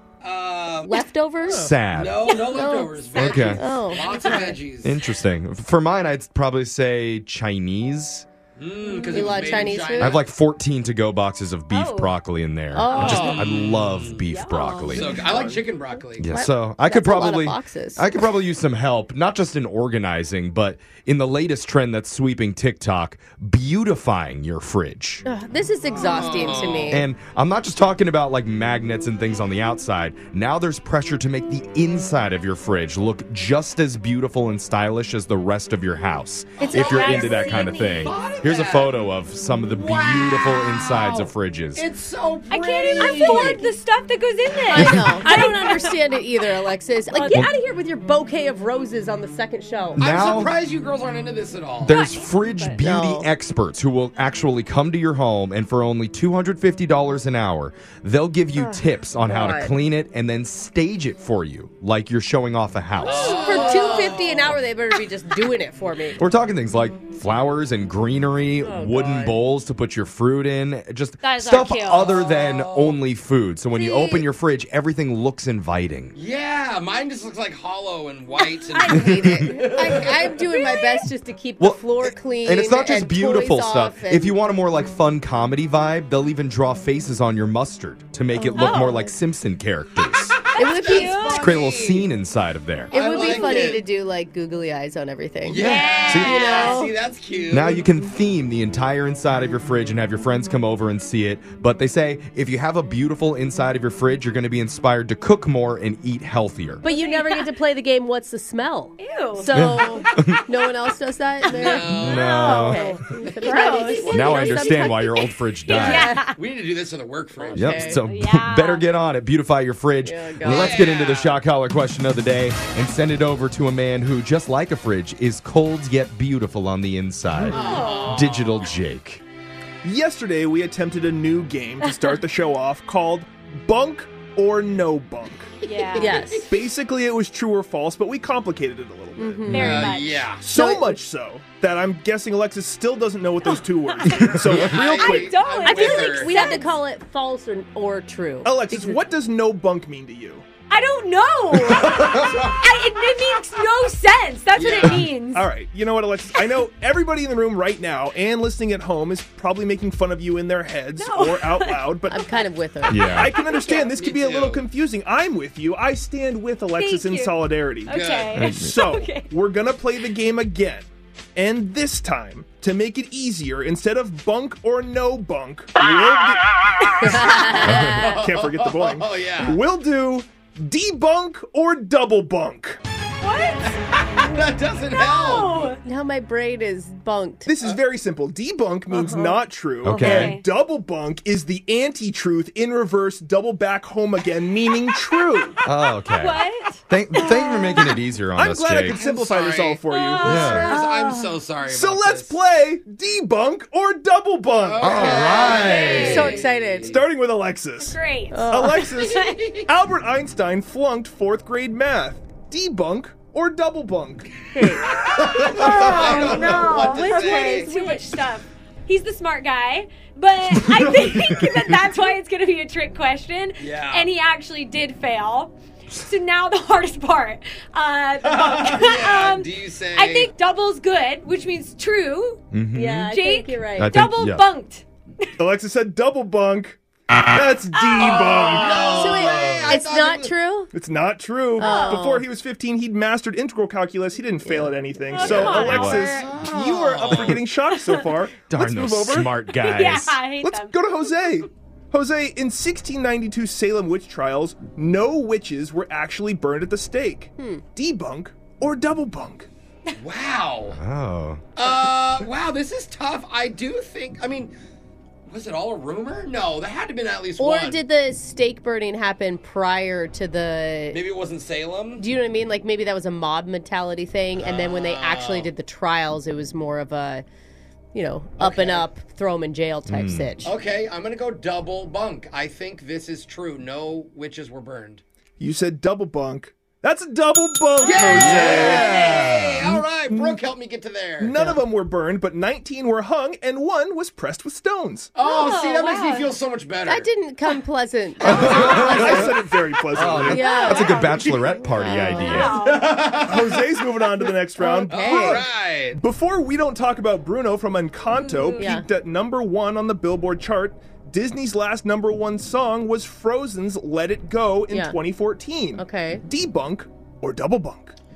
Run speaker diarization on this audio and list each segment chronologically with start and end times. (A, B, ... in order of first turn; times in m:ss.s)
0:00.2-0:01.0 A
0:00.8-0:01.7 B
0:01.5-0:01.7 C
0:01.5-0:02.2 D
0:01.9-0:05.0 A
0:02.3-0:04.6 B
0:03.1-0:03.7 D
0:04.8-0:08.2 D
0:08.6-0:10.2 A
0:08.9-0:09.2 E
0:09.1-0:10.2 B
0:10.0-0:15.6 D
0:11.7-0:12.1 E
0:12.7-0:13.5 B
0:12.9-0:13.2 E
0:13.0-0:14.2 A
0:14.2-0:15.1 E
0:14.9-0:16.3 A
0:15.1-0:15.6 B
0:16.2-0:25.2 D
0:16.3-0:18.2 B
0:25.2-0:27.1 B
0:26.0-0:27.0 A
0:26.9-0:41.9 D
0:36.6-0:38.9 A
0:36.6-0:38.1 E
0:39.7-0:43.6 A
0:42.5-0:46.0 E
0:43.0-0:43.7 B
0:44.7-0:50.0 B
0:44.8-0:45.1 D
0:47.1-0:47.5 E
0:50.0-0:50.5 D
0:50.0-0:52.0 A
0:51.8-1:03.7 D
0:51.9-0:52.8 E
0:52.8-0:53.3 B
0:58.6-0:59.7 B
1:03.0-1:06.2 B
1:03.0-1:04.6 A
1:06.2-1:16.1 D
1:08.6-1:09.4 B
1:11.2-1:12.2 E
1:12.1-1:13.0 A
1:13.8-1:14.2 B
1:13.8-1:14.2 E
1:16.1-1:20.5 A
1:18.4-1:19.0 E
1:18.8-1:24.3 B
1:20.5-1:21.0 E
1:21.6-1:30.4 D
1:28.4-1:29.1 E
1:30.4-1:32.1 A
1:30.5-1:31.5 E
1:30.6-1:31.5 B
1:31.4-1:32.9 D
1:32.9-1:36.9 B
1:32.9-1:33.8 A
1:33.0-1:33.7 E
1:35.4-1:37.8 A
1:35.6-1:36.8 E
1:36.1-1:36.4 D
1:37.5-1:46.8 D
1:46.8-1:56.3 B
1:46.8-1:47.5 E
1:49.0-1:50.1 E
1:49.5-1:50.4 D
1:51.5-1:52.4 A
1:51.6-1:54.8 E
1:52.0-1:52.9 D
1:54.1-1:56.1 D
1:55.7-1:56.4 E
1:56.3-1:57.9 A
1:57.4-1:58.0 B
1:57.5-2:09.2 D
1:58.0-1:58.9 E
2:00.0-2:00.8 B
2:00.4-2:01.4 A
2:07.5-2:08.8 A
2:07.5-2:08.3 E
2:09.8-2:15.6 C
2:15.6-2:16.3 E
2:15.6-2:16.4 A
2:16.0-2:16.5 B
2:16.5-2:19.8 C
2:19.2-2:19.9 B
2:19.5-2:20.3 E
2:19.5-2:20.4 A
2:20.4-2:25.4 C
2:20.5-2:21.0 B
2:23.4-2:26.7 E
2:24.1-2:24.8 D
2:24.4-2:26.3 A
2:25.6-2:29.0 B
2:28.4-2:30.4 C
2:30.7-2:35.5 E
2:31.8-2:32.5 A
2:31.9-2:32.4 D
2:34.5-2:35.1 A
2:35.3-2:42.2 C
2:40.9-2:42.4 E
2:42.1-2:43.2 B
2:42.9-2:43.3 D
2:43.0-2:43.9 E
2:43.0-2:56.5 C
2:43.9-2:44.6 A
2:46.7-2:49.3 E
2:47.9-2:48.4 A
2:48.3-2:48.9 D
2:57.0-2:58.2 B
2:57.0-3:02.8 C
2:57.6-2:58.0 D
2:57.8-2:59.6 A
3:03.2-3:03.8 E
3:03.6-3:05.8 A
3:04.9-3:05.8 E
3:05.8-3:07.5 B
3:07.4-3:15.6 C
3:08.9-3:09.4 B
3:09.8-3:10.4 D
3:09.9-3:10.4 E
3:15.6-3:19.0 D
3:16.1-3:18.0 E
3:18.3-3:20.7 C
3:19.0-3:19.8 A
3:19.9-3:20.8 E
3:20.2-3:20.7 D
3:20.6-3:22.4 A
3:20.7-3:21.3 B
3:21.6-3:25.3 C
3:24.6-3:27.0 A
3:24.8-3:26.4 D
3:25.3-3:26.3 E
3:25.9-3:27.0 B
3:26.8-3:34.3 C
3:27.8-3:29.6 E
3:28.3-3:28.7 B
3:29.2-3:29.7 A
3:34.5-3:38.0 B
3:34.8-3:37.7 A
3:35.3-3:52.4 E
3:43.6-3:44.1 A
3:48.2-3:50.3 A
3:52.5-3:53.1 D
3:52.7-3:54.0 B
3:53.1-3:54.8 E
3:53.8-3:54.5 D
3:55.4-3:56.8 C
3:57.3-3:59.4 C
3:57.7-3:58.9 E
3:58.0-4:00.3 A
3:58.6-4:00.7 B
4:00.7-4:09.3 C
4:01.6-4:02.2 E
4:01.6-4:02.2 B
4:04.4-4:05.6 B
4:05.2-4:06.3 E
4:05.3-4:06.1 D
4:05.3-4:07.4 A
4:07.6-4:08.1 E
4:08.5-4:10.2 D
4:09.4-4:11.2 E
4:10.4-4:19.5 C
4:17.4-4:17.6 B
4:20.0-4:20.8 A
4:20.7-4:21.5 D
4:21.6-4:24.5 A
4:25.3-4:27.8 A
4:27.4-4:31.0 B
4:30.9-4:32.0 A
4:32.0-4:37.2 B
4:34.4-4:35.5 A
4:37.9-4:40.5 B
4:38.4-4:38.9 A
4:39.9-4:40.3 D
4:40.4-4:45.0 A
4:45.4-4:50.4 C
4:47.8-4:51.4 A
4:48.1-4:49.7 D
4:51.2-4:55.1 C
4:51.3-4:51.6 B
4:55.1-4:57.1 A
4:55.2-4:56.3 E
4:56.9-4:59.3 B
4:58.2-4:59.3 D
4:58.2-4:59.4 A
4:58.4-5:00.8 C
4:59.9-5:01.5 A
4:59.9-5:02.6 D
5:00.3-5:02.7 B
5:00.4-5:00.9 E
5:02.0-5:03.0 E
5:02.5-5:03.7 A
5:03.2-5:17.9 C
5:04.6-5:05.4 B
5:04.9-5:06.0 A
5:08.0-5:08.7 E
5:08.6-5:08.9 B
5:14.7-5:15.0 B
5:15.8-5:16.2 B